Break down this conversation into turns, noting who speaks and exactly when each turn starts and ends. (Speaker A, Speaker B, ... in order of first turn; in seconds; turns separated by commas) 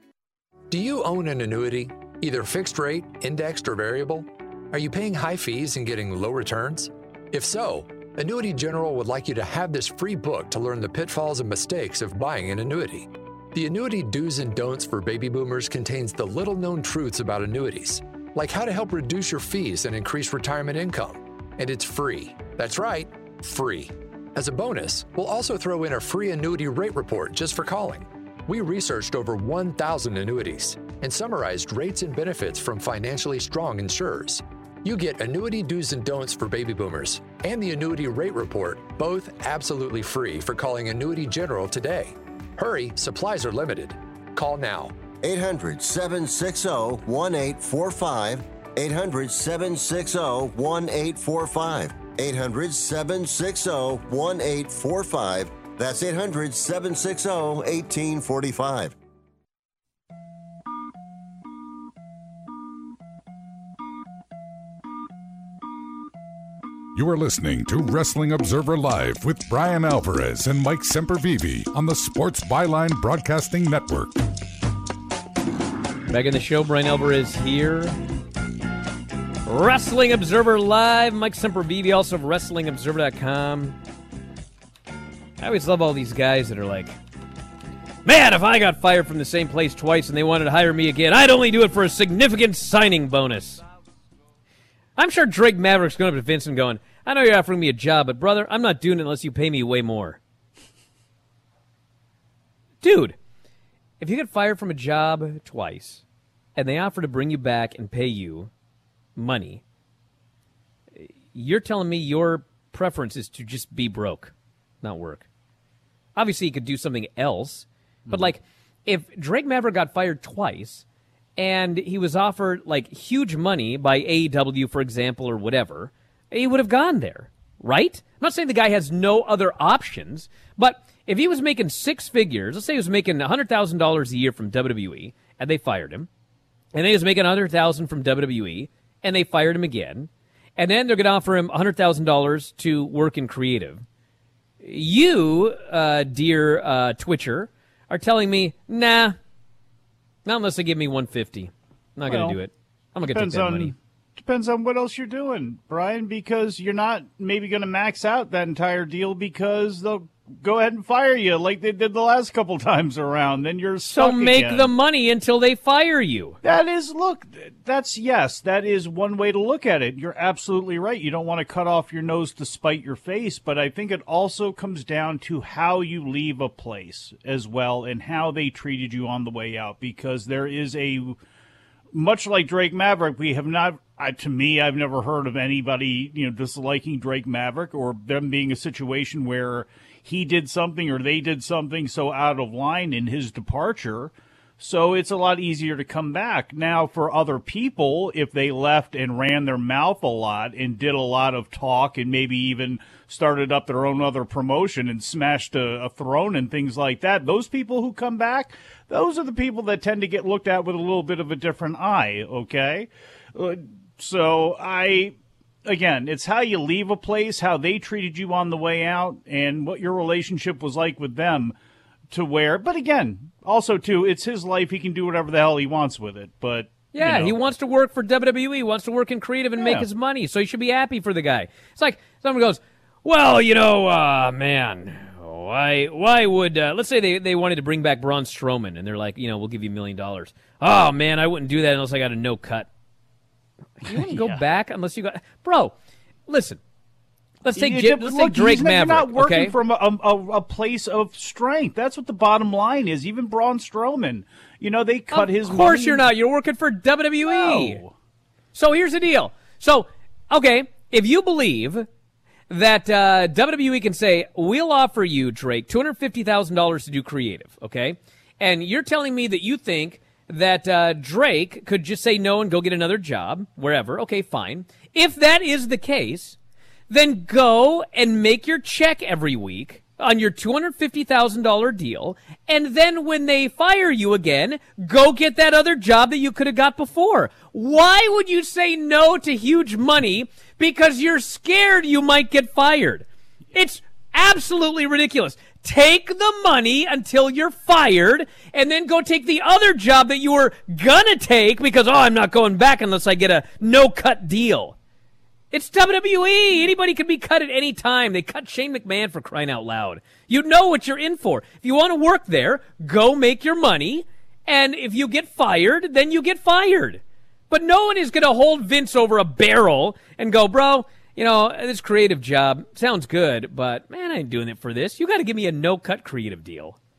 Speaker A: 0.7-45.0, Speaker B: 45.2-59.0, Speaker C: 67.0-74.1, Speaker D: 76.1-78.0, Speaker D: 79.5-83.8, Speaker D: 85.4-87.0, Speaker D: 88.0-93.6, Speaker D: 95.0-100.2, Speaker D: 102.8-103.2, Speaker D: 104.0-106.0, Speaker D: 106.6-108.5, Speaker D: 109.2-109.6, Speaker D: 111.0-115.3, Speaker D: 116.2-120.8, Speaker E: 118.1-118.3, Speaker D: 121.4-136.1, Speaker D: 136.7-143.8, Speaker D: 144.6-149.2, Speaker D: 150.2-153.7, Speaker E: 152.1-152.4, Speaker E: 153.0-164.7, Speaker D: 163.9-166.4, Speaker E: 166.4-181.2, Speaker E: 181.9-221.5, Speaker E: 222.1-227.4, Speaker D: 226.9-242.7, Speaker E: 229.6-229.9, Speaker D: 243.8-245.8, Speaker E: 243.9-244.4, Speaker D: 246.3-246.6, Speaker D: 247.4-249.6, Speaker E: 247.6-256.1, Speaker D: 255.1-257.8, Speaker E: 257.2-257.9, Speaker D: 258.6-261.9, Speaker D: 262.5-276.4, Speaker D: 276.9-304.8, Speaker D: 305.5-326.8